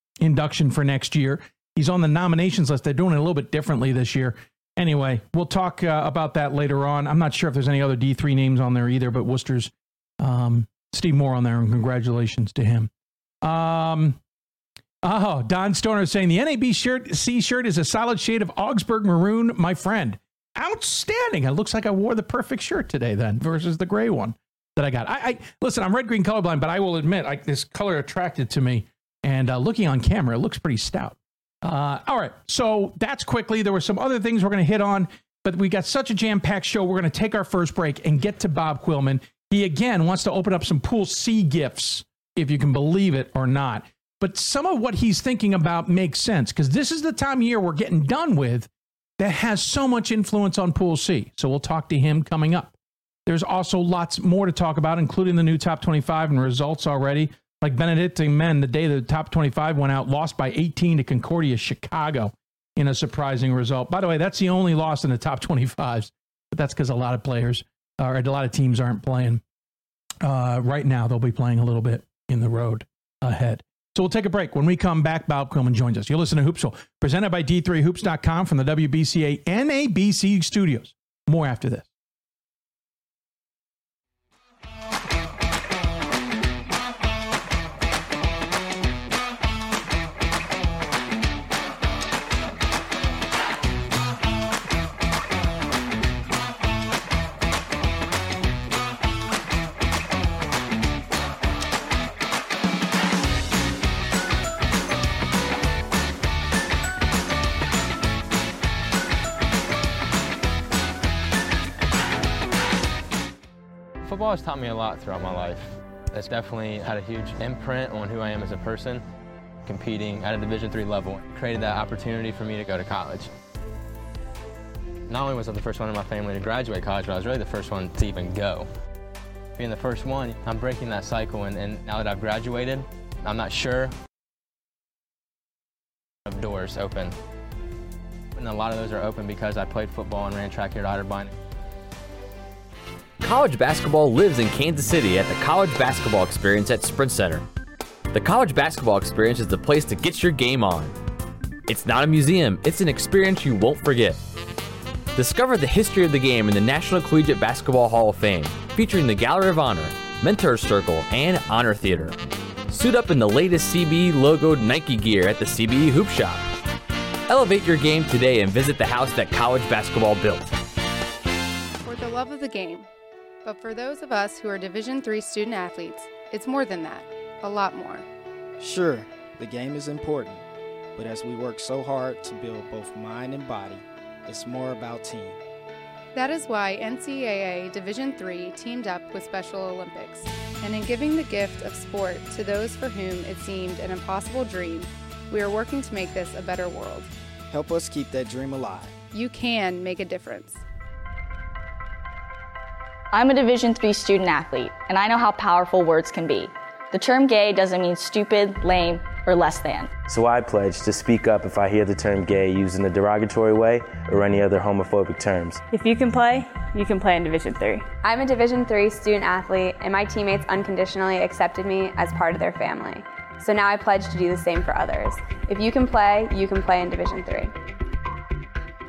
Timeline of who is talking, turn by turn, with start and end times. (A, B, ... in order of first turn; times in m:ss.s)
0:00.2-0:12.9 A
0:13.4-0:14.2 A
0:15.0-0:52.8 A
0:53.3-1:09.4 A
1:10.2-1:21.9 A
1:54.0-1:59.0 B
1:59.6-2:03.3 B
2:05.1-2:08.7 B
2:09.6-2:13.9 B
2:16.3-2:17.2 B
2:18.3-2:21.4 B
2:23.2-2:27.4 C
2:28.1-2:31.0 C
2:31.7-2:34.2 C
2:35.2-2:42.2 C
2:42.7-2:46.4 C
2:47.3-2:50.5 C
2:51.8-2:52.9 D
2:53.4-2:58.1 D
2:58.6-3:00.4 E
3:01.0-3:05.4 E
3:06.2-3:17.1 D
3:17.5-3:19.0 E
3:19.1-3:20.6 D
3:23.1-3:29.9 F
3:30.1-3:35.6 G
3:35.7-3:37.9 H
3:38.0-3:47.5 I